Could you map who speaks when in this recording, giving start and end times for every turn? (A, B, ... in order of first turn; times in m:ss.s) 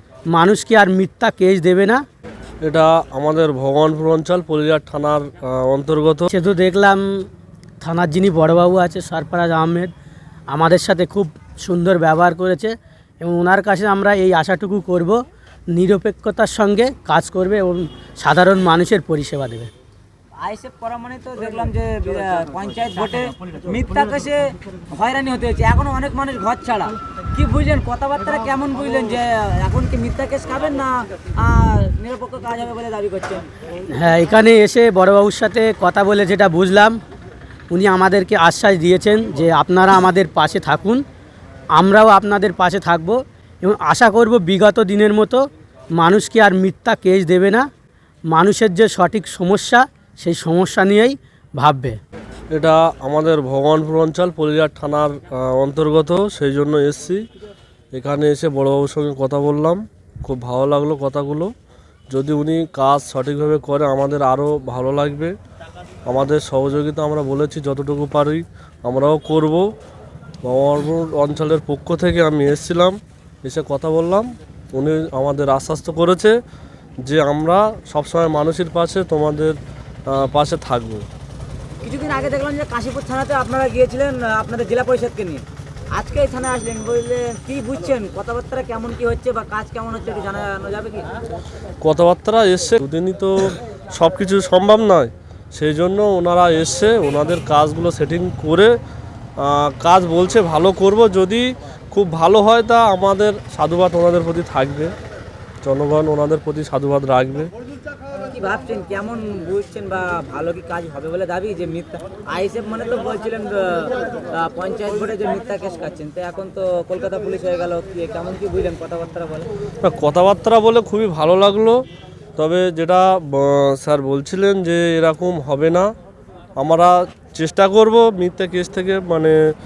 0:00.3-0:02.0 A
0:02.6-0:06.3 B
0:06.3-0:07.0 A
0:07.8-0:09.9 A
0:10.5-0:15.2 A
0:15.7-0:19.7 A
0:20.4-0:33.4 C
0:33.9-0:37.0 A
0:37.7-0:41.0 A
0:41.8-0:45.4 A
0:46.0-0:47.7 A
0:48.3-0:52.0 A
0:52.5-0:57.2 B
0:57.9-1:01.5 B
1:02.1-1:05.3 B
1:06.1-1:09.7 B
1:10.4-1:16.3 B
1:17.0-1:19.6 B
1:20.1-1:21.0 B
1:21.8-1:31.1 C
1:31.8-1:38.7 B
1:39.4-1:44.9 B
1:45.6-1:47.5 B
1:48.2-1:59.5 C
1:59.8-2:01.8 B
2:02.4-2:05.9 B
2:06.6-2:09.4 B